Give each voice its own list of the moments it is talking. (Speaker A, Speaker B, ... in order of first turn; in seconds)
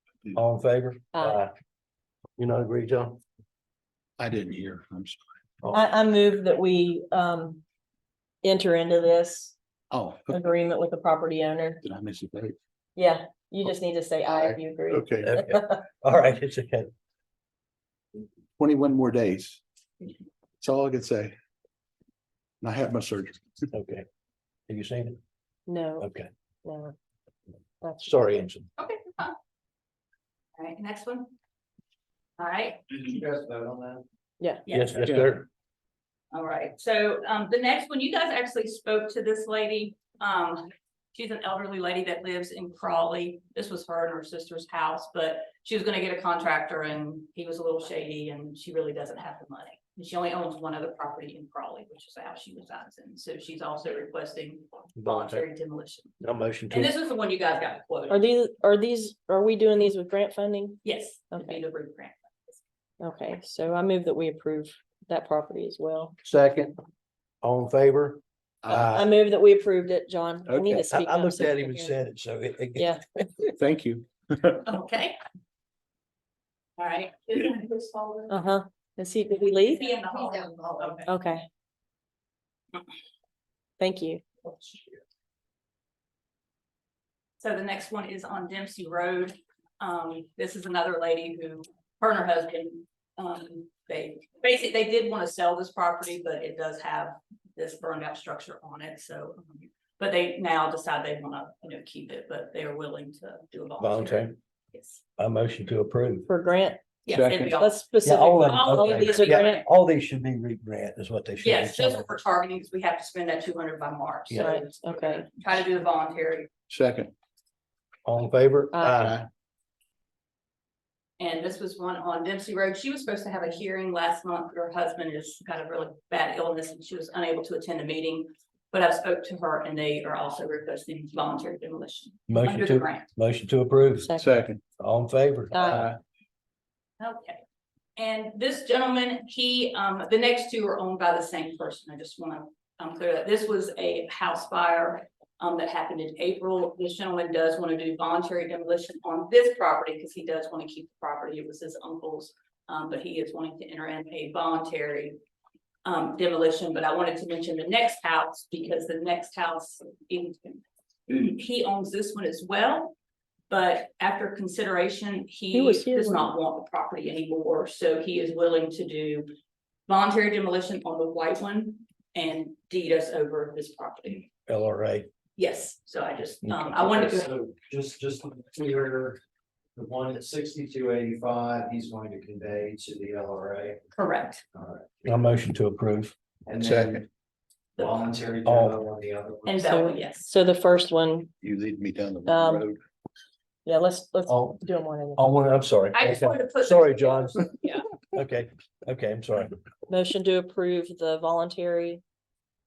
Speaker A: 0.3-1.5, 2.4-3.2, 15.2-16.9, 23.7-24.1, 24.7-25.2, 26.0-26.3, 28.0-28.7, 34.7-35.5, 55.0-55.5, 56.2-57.0, 66.2-66.8, 67.4-69.1, 70.7-73.3, 103.8-104.3, 105.2-106.3, 108.0-112.1, 118.1-119.2, 132.3-134.1, 134.8-136.0, 174.5-175.1, 176.5-176.7, 185.0-186.2, 188.4-188.8, 194.3-194.6, 195.2-197.5, 198.1-199.6
Speaker B: 4.2-5.2, 9.9-10.4, 11.8-12.6, 14.3-15.3, 18.6-19.6, 20.6-21.4, 22.6-23.6, 35.0-35.3, 68.6-68.9, 70.5-70.8, 73.5-74.7, 107.1-107.6, 116.7-117.1, 119.0-119.3, 134.2-134.6, 135.7-136.0, 186.6-187.1, 191.4-192.8
Speaker C: 5.7-7.6, 8.4-9.6, 10.3-11.8, 13.0-15.8, 25.7-26.1, 26.6-26.9, 27.8-28.4, 58.1-61.6, 63.0-66.2, 68.9-72.0, 72.8-73.0, 78.3-79.9, 81.0-81.5, 83.8-84.2, 106.3-106.8, 107.6-109.6, 114.4-115.3, 118.7-119.0, 134.0-134.4, 135.5-135.9, 165.5-166.3, 189.6-191.3, 192.3-192.7, 193.7-195.3, 199.9-202.0
Speaker D: 28.8-29.4, 30.6-31.3, 32.4-33.1, 34.7-35.0, 36.3-56.1, 56.7-58.2, 60.8-62.6, 74.7-75.2, 76.8-78.3, 79.6-81.1, 87.4-105.0, 107.0-109.7, 111.4-116.5, 121.2-133.1, 137.0-137.4, 138.0-155.2, 155.8-162.9, 163.5-169.3, 169.9-174.3, 175.4-177.3, 183.9-184.4, 189.4-190.3, 195.9-197.9
Speaker E: 33.1-34.0, 176.8-179.2, 179.8-183.8, 184.6-184.9, 186.5-187.0, 187.8-189.6